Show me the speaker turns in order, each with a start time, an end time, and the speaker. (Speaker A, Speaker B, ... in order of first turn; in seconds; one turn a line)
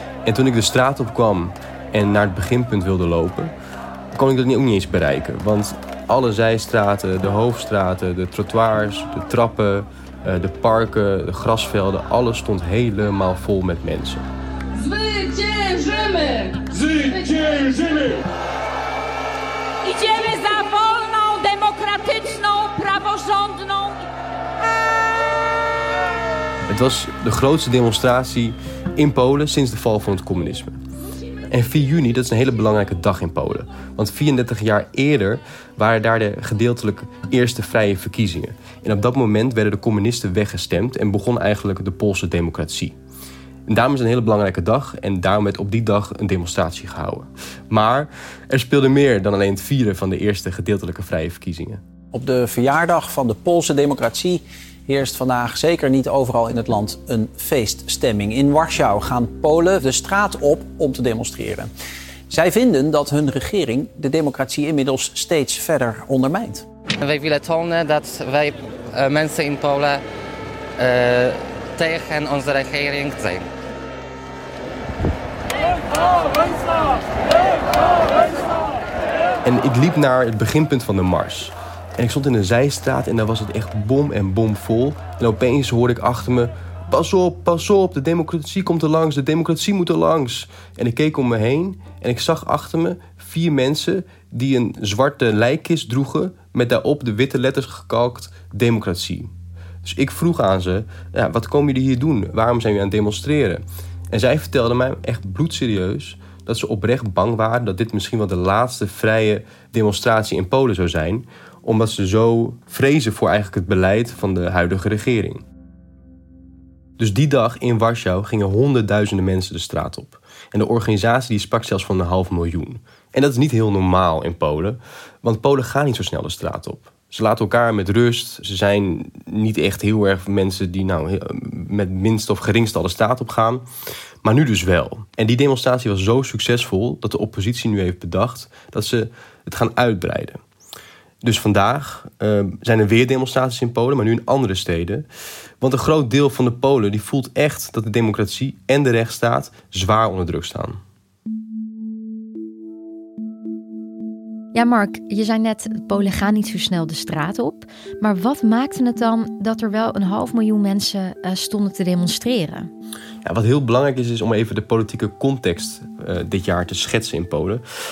Speaker A: 0.2-3.5
Speaker A: 4.1-14.2
Speaker B: 14.9-17.9
Speaker B: 19.9-24.0
Speaker A: 26.7-30.8
Speaker A: 31.5-43.0
Speaker A: 43.7-51.8
Speaker C: 52.1-61.7
Speaker C: 62.3-66.7
Speaker D: 67.0-70.0
Speaker D: 70.8-73.5
Speaker A: 79.5-99.3
Speaker A: 99.8-115.4
Speaker A: 117.0-133.7
Speaker A: 134.2-140.4
Speaker A: 141.2-145.1
Speaker A: 145.6-150.8
Speaker E: 154.5-162.7
Speaker A: 163.2-167.6